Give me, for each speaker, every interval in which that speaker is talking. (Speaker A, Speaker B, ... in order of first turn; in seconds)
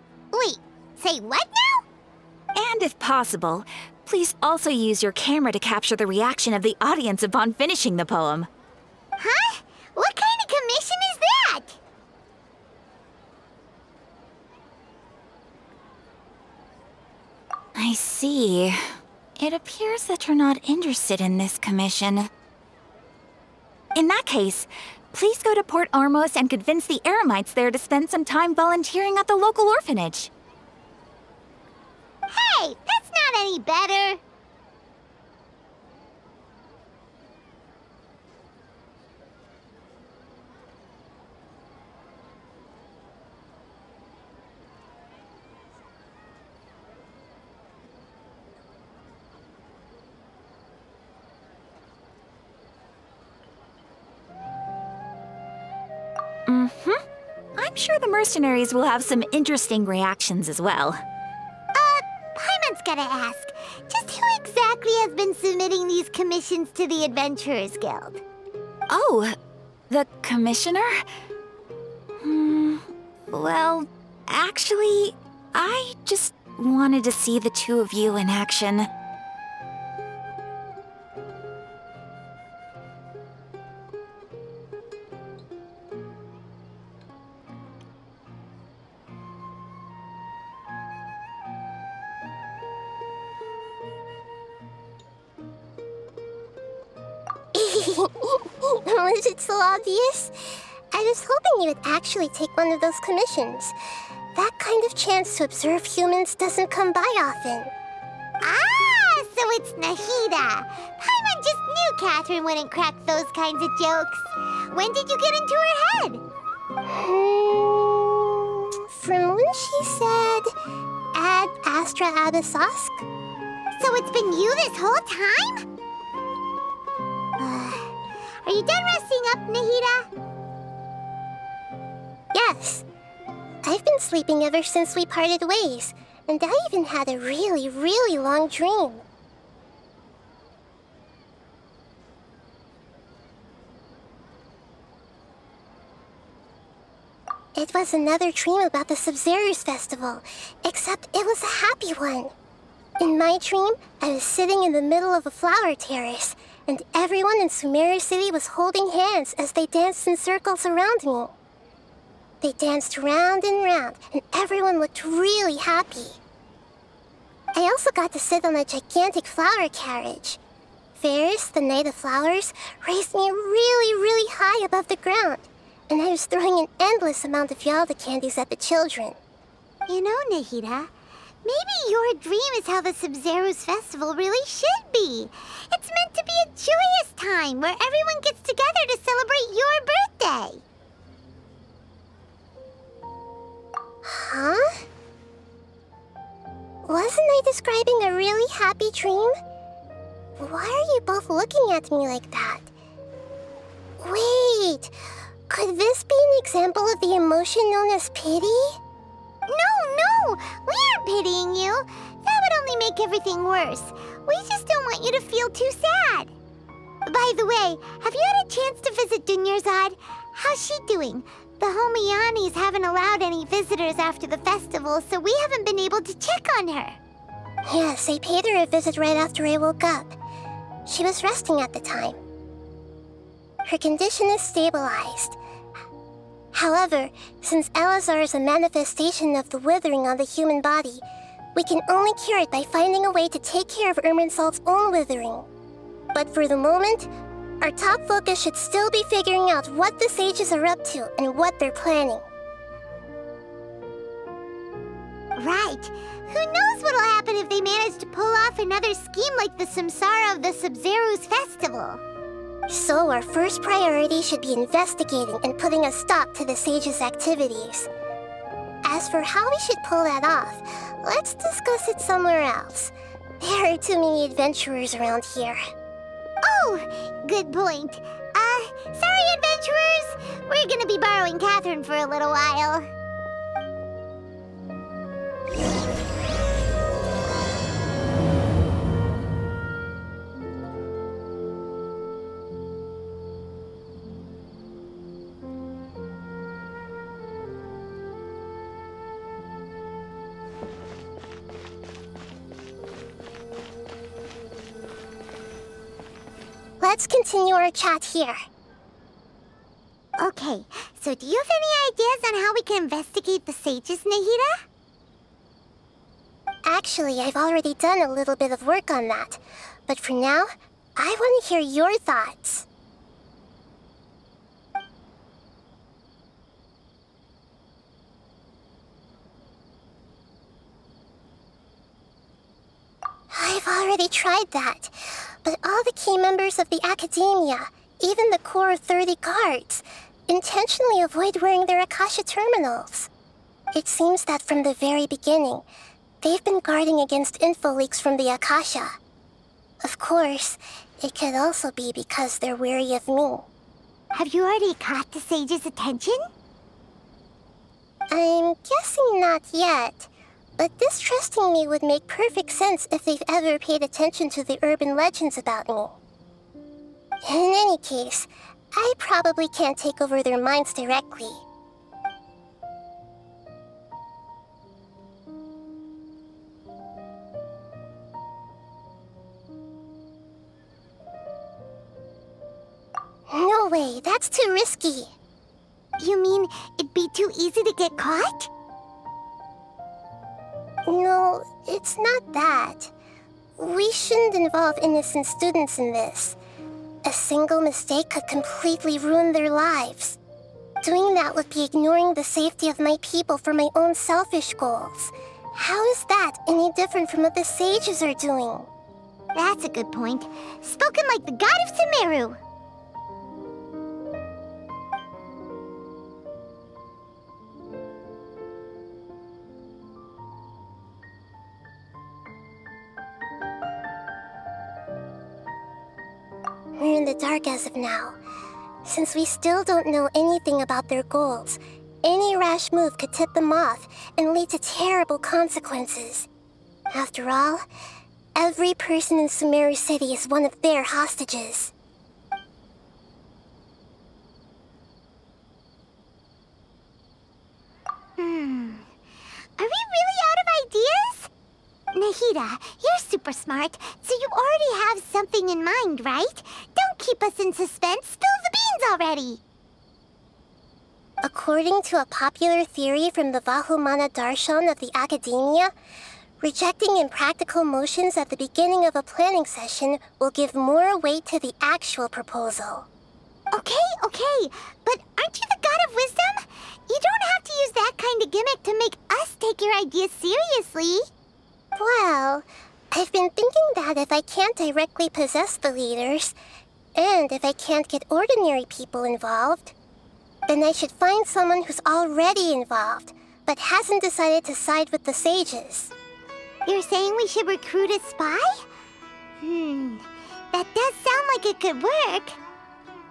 Speaker A: 0.3-1.9, 9.2-11.8, 32.3-34.2, 61.8-68.2, 108.4-116.2, 123.8-125.7, 127.4-130.1, 179.9-180.9, 181.4-190.6, 209.5-216.3, 217.1-227.0, 255.4-262.0, 276.4-282.9, 310.2-314.6, 354.1-356.3, 386.0-388.5, 409.4-412.4, 448.2-448.9, 449.6-451.3, 451.9-459.4, 473.5-481.1, 496.7-498.6, 499.4-502.4
Speaker B: 2.5-8.5, 17.8-22.3, 23.9-30.3, 56.5-57.0, 57.6-61.0, 68.9-69.4, 69.9-71.0, 72.2-78.9
Speaker C: 97.5-100.3, 100.9-103.8, 104.3-107.7, 116.9-120.5, 121.1-123.0, 132.3-132.8, 133.6-139.0, 147.6-152.3, 153.0-161.3, 162.4-166.2, 167.6-170.4, 171.0-179.2, 194.0-194.8, 196.8-199.3, 200.4-202.7, 204.0-204.9, 205.5-208.8, 227.7-230.2, 230.9-232.2, 233.7-235.4, 236.5-241.0, 241.6-245.5, 246.1-247.1, 247.6-252.3, 262.7-267.9, 268.8-275.6, 306.8-308.4, 316.6-322.7, 333.3-343.1, 343.7-345.7, 346.2-349.0, 349.8-353.5, 358.1-366.0, 367.2-371.4, 383.3-385.1, 390.9-392.9, 393.6-396.4, 397.0-400.2, 400.8-408.7, 426.8-428.2, 428.8-436.3, 436.9-437.6, 438.4-441.7, 461.2-465.7, 466.4-472.9, 481.8-486.4, 486.9-489.7, 490.5-495.9